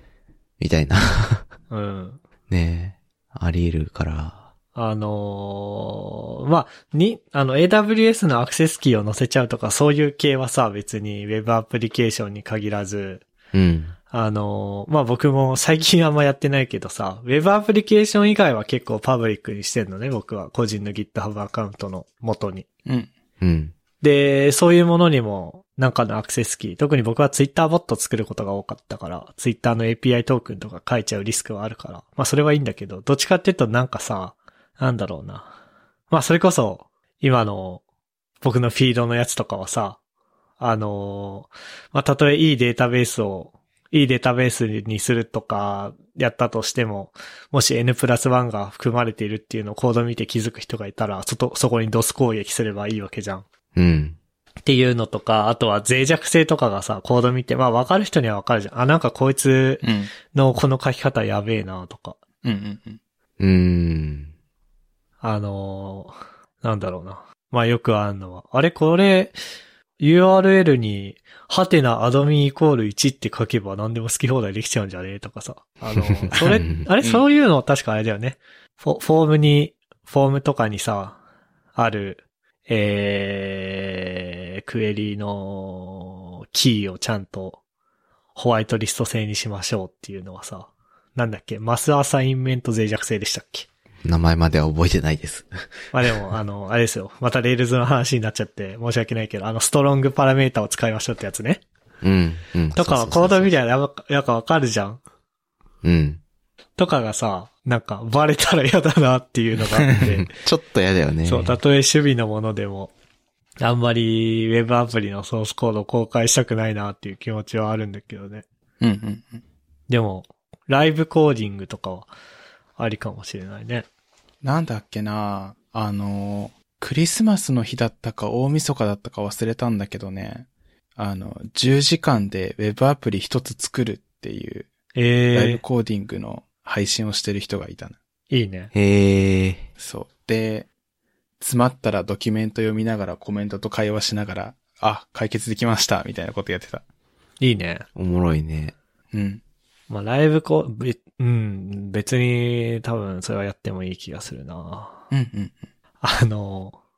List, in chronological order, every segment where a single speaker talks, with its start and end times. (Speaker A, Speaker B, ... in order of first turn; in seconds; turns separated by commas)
Speaker A: 0.6-1.5, Speaker B: 1.7-2.2, Speaker A: 2.5-4.5, Speaker B: 4.7-13.2, Speaker A: 13.5-13.9, Speaker B: 14.1-22.7, Speaker A: 23.4-23.7, Speaker B: 24.0-35.5, Speaker B: 36.1-37.8, Speaker B: 38.4-40.0, Speaker B: 40.6-53.4, Speaker A: 53.7-54.2, Speaker B: 54.6-62.2, Speaker C: 59.8-60.1, Speaker C: 62.4-63.0, Speaker A: 63.4-64.3, Speaker B: 65.2-69.4, Speaker B: 70.0-81.2, Speaker A: 76.2-76.8, Speaker B: 81.8-87.6, Speaker B: 88.3-93.7, Speaker A: 94.0-95.6, Speaker B: 95.9-101.6, Speaker A: 102.0-103.5, Speaker B: 102.7-105.0, Speaker A: 105.8-106.2, Speaker B: 106.8-110.3, Speaker A: 110.0-111.6, Speaker B: 111.2-112.9, Speaker B: 113.6-118.4, Speaker C: 118.8-119.4, Speaker B: 119.9-122.1, Speaker B: 122.8-123.9, Speaker C: 124.4-134.7, Speaker B: 134.9-135.6, Speaker C: 135.3-138.0, Speaker B: 138.3-138.7, Speaker A: 138.7-139.7, Speaker C: 139.8-140.7, Speaker C: 141.4-146.8, Speaker B: 147.4-147.8, Speaker A: 147.9-148.7, Speaker C: 149.1-149.4, Speaker B: 149.9-155.0, Speaker C: 155.1-155.5, Speaker B: 156.0-156.8